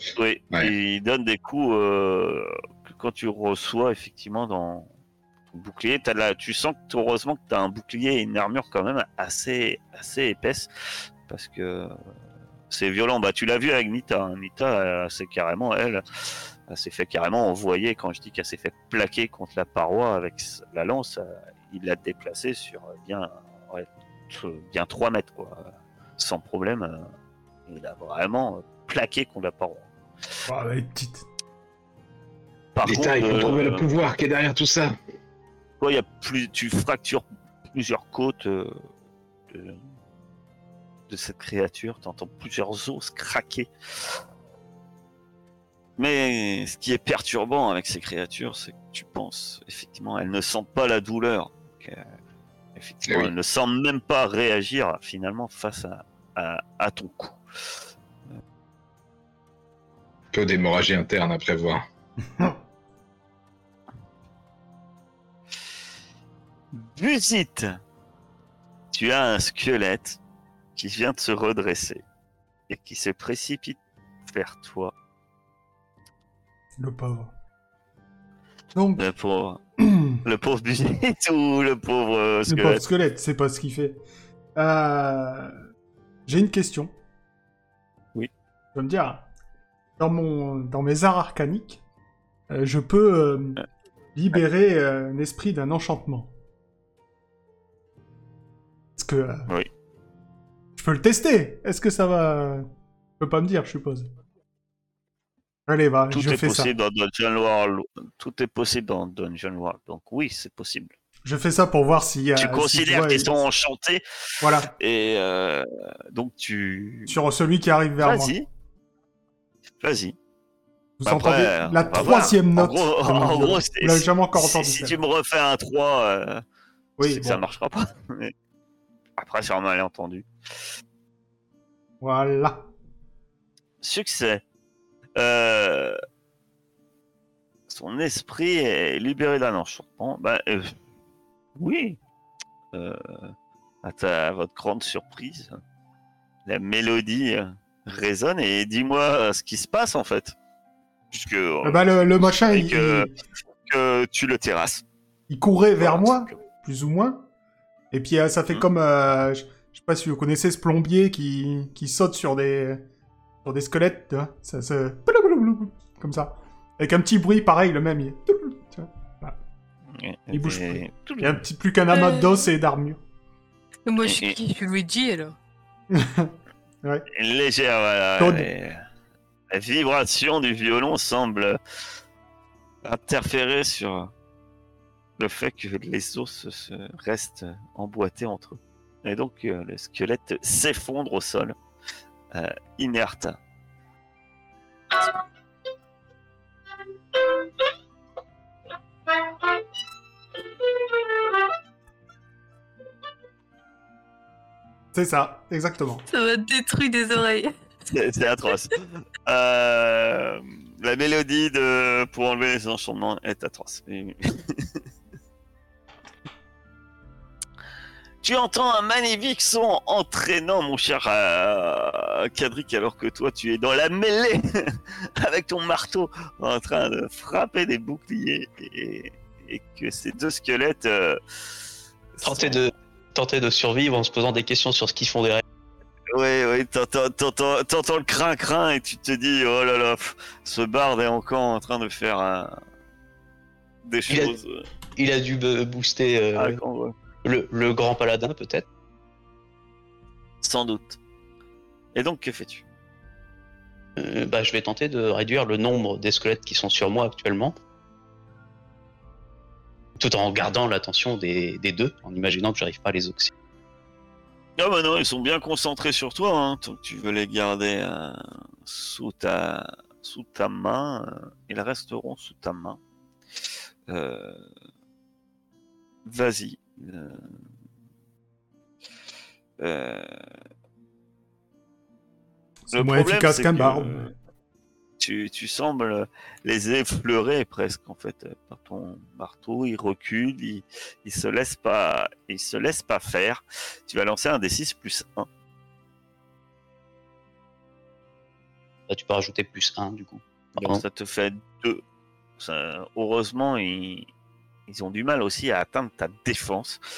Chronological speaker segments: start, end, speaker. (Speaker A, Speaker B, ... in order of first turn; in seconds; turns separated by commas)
Speaker A: 0.1-4.9, Speaker A: 5.5-10.7, Speaker A: 11.3-11.9, Speaker A: 12.7-16.0, Speaker A: 16.7-27.1, Speaker A: 27.7-29.9, Speaker B: 30.5-31.2, Speaker A: 32.7-33.9, Speaker C: 32.8-35.0, Speaker A: 35.8-38.8, Speaker A: 39.5-39.8, Speaker A: 41.1-43.7, Speaker A: 46.0-52.0, Speaker A: 52.7-57.4, Speaker C: 53.1-53.3, Speaker C: 60.3-61.8, Speaker A: 66.7-67.8, Speaker A: 68.9-70.2, Speaker A: 70.8-72.0, Speaker A: 72.7-74.9, Speaker B: 76.8-77.3, Speaker B: 78.7-79.0, Speaker A: 79.0-79.6, Speaker B: 79.8-80.2, Speaker A: 80.2-82.8, Speaker B: 82.5-84.0, Speaker B: 84.5-85.6, Speaker B: 86.3-86.9, Speaker B: 88.7-89.2, Speaker B: 90.0-91.8, Speaker B: 92.5-93.6, Speaker B: 94.1-96.3, Speaker B: 99.0-99.5, Speaker B: 100.8-102.7, Speaker B: 103.2-104.1, Speaker B: 105.7-106.7, Speaker A: 106.1-110.9, Speaker B: 111.2-113.4, Speaker A: 112.3-114.0, Speaker B: 114.4-114.7, Speaker A: 114.7-117.2, Speaker B: 117.1-118.3, Speaker A: 118.0-118.5, Speaker A: 119.8-120.2, Speaker B: 121.0-125.0, Speaker A: 121.0-126.4, Speaker B: 127.0-127.4, Speaker A: 127.0-128.3, Speaker A: 129.2-130.3, Speaker B: 132.0-132.7, Speaker A: 133.8-134.4, Speaker A: 135.2-136.0, Speaker A: 137.7-140.7, Speaker A: 141.6-142.0, Speaker A: 142.7-145.6, Speaker A: 146.4-150.3, Speaker A: 151.1-153.1, Speaker B: 151.6-153.1, Speaker A: 153.7-154.8, Speaker B: 155.3-157.2, Speaker A: 155.8-156.3, Speaker B: 157.9-162.8, Speaker B: 163.4-169.4, Speaker A: 169.9-171.4, Speaker B: 170.3-173.0, Speaker D: 171.9-172.5, Speaker D: 173.8-175.3, Speaker A: 174.0-174.4, Speaker B: 175.9-177.1, Speaker A: 177.1-178.8, Speaker B: 178.2-178.5, Speaker A: 179.5-181.6, Speaker A: 182.8-184.1, Speaker A: 185.2-191.5, Speaker A: 192.3-193.4, Speaker B: 204.9-206.1, Speaker D: 206.1-207.5, Speaker A: 207.9-214.7, Speaker A: 218.2-231.2, Speaker A: 232.2-232.6, Speaker E: 232.2-235.4, Speaker A: 236.1-242.6, Speaker A: 243.8-244.6, Speaker E: 244.1-244.3, Speaker E: 244.9-246.6, Speaker A: 246.3-246.9, Speaker E: 247.2-248.7, Speaker A: 250.4-251.0, Speaker A: 251.9-252.6, Speaker E: 254.0-257.5, Speaker E: 260.0-263.3, Speaker A: 264.6-272.8, Speaker A: 273.9-274.5, Speaker A: 276.0-277.3, Speaker A: 279.6-280.1, Speaker A: 282.7-284.1, Speaker B: 282.7-284.1, Speaker A: 285.0-295.3, Speaker E: 298.9-300.8, Speaker A: 300.6-301.8, Speaker A: 302.4-304.1, Speaker A: 304.7-306.8